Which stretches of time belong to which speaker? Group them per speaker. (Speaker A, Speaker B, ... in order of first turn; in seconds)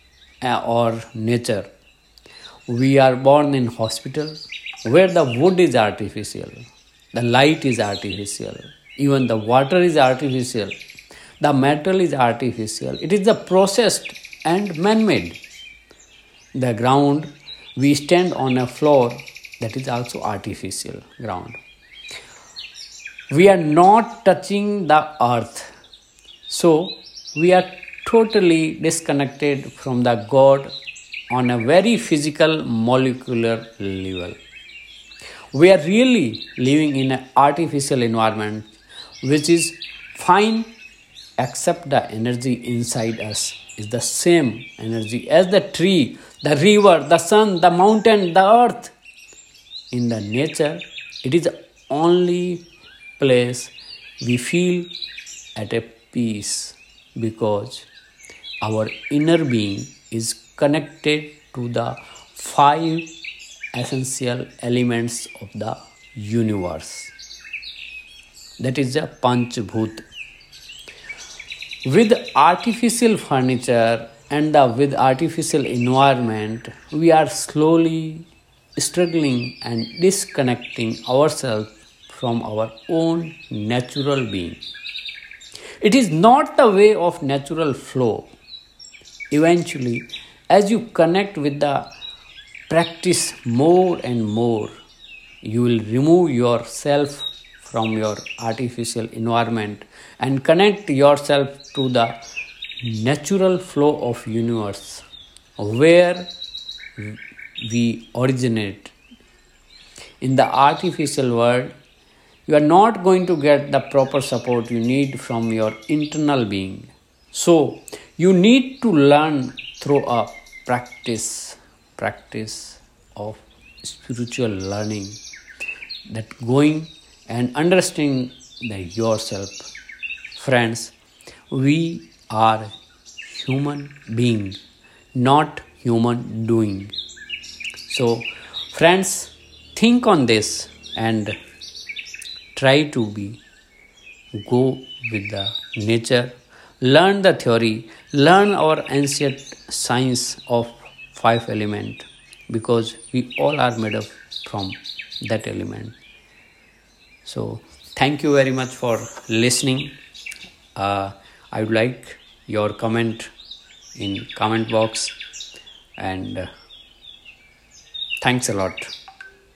Speaker A: 0.4-1.7, 2.7-10.8, 11.4-15.4, 16.5-21.6, 23.3-25.7, 26.5-30.7, 31.3-34.4, 35.5-38.7, 39.2-40.7, 41.4-48.9, 49.9-52.6, 53.2-54.9, 55.5-57.9, 58.6-63.1, 63.7-67.1, 68.6-70.0, 71.8-84.6, 85.8-88.3, 89.3-91.9, 92.7-94.8, 95.4-102.2, 102.8-105.0, 105.6-106.3, 107.0-108.9, 110.2-111.7, 112.5-125.2, 126.1-129.7, 130.3-130.9, 131.5-134.6, 135.1-136.9, 137.9-141.3, 142.5-143.4, 144.3-155.9, 157.2-160.0, 160.7-163.3, 163.9-165.1, 166.0-166.5, 168.2-168.9